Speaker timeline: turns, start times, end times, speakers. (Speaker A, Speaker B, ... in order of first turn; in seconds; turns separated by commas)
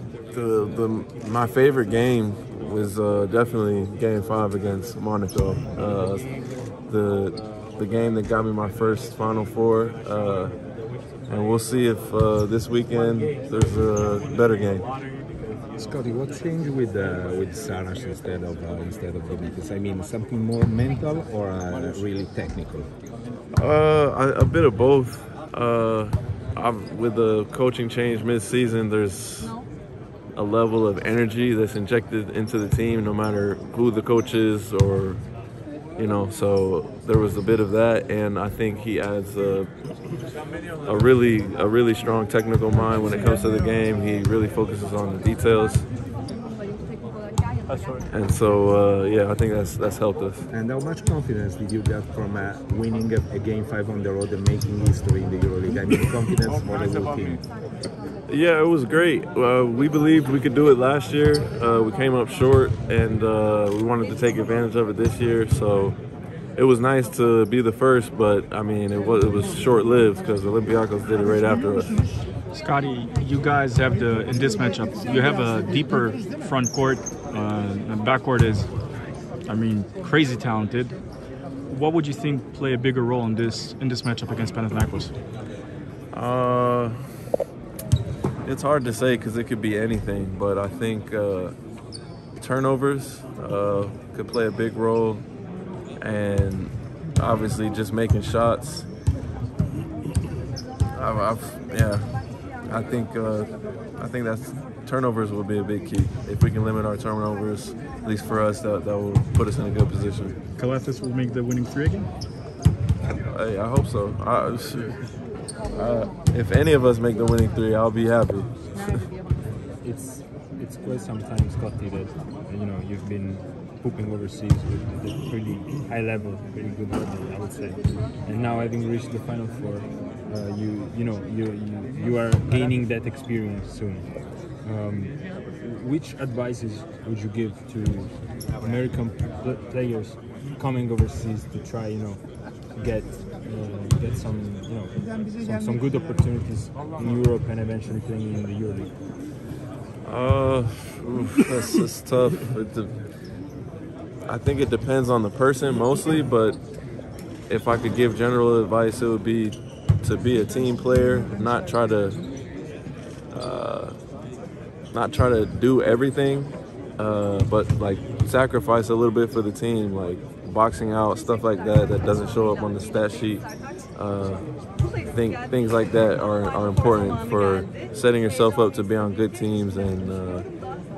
Speaker A: 0.3-6.2, Speaker A: 6.9-10.6, Speaker A: 11.3-14.9, Speaker B: 15.8-22.9, Speaker A: 23.5-29.6, Speaker A: 30.4-35.2, Speaker A: 36.0-39.7, Speaker A: 40.9-45.9, Speaker C: 47.7-48.0, Speaker A: 48.1-50.5, Speaker B: 50.5-57.4, Speaker A: 58.3-66.0, Speaker A: 66.6-71.9, Speaker D: 72.5-78.7, Speaker D: 79.5-81.0, Speaker D: 81.7-85.1, Speaker A: 86.1-87.0, Speaker A: 88.5-91.5, Speaker A: 92.4-95.2, Speaker A: 96.0-98.9, Speaker A: 100.9-110.3, Speaker D: 110.6-112.1, Speaker A: 113.3-115.0, Speaker A: 115.7-118.5, Speaker C: 119.8-148.9, Speaker A: 150.0-152.9, Speaker A: 154.3-156.6, Speaker A: 157.5-162.2, Speaker A: 163.3-164.0, Speaker A: 164.9-174.5, Speaker A: 175.1-180.5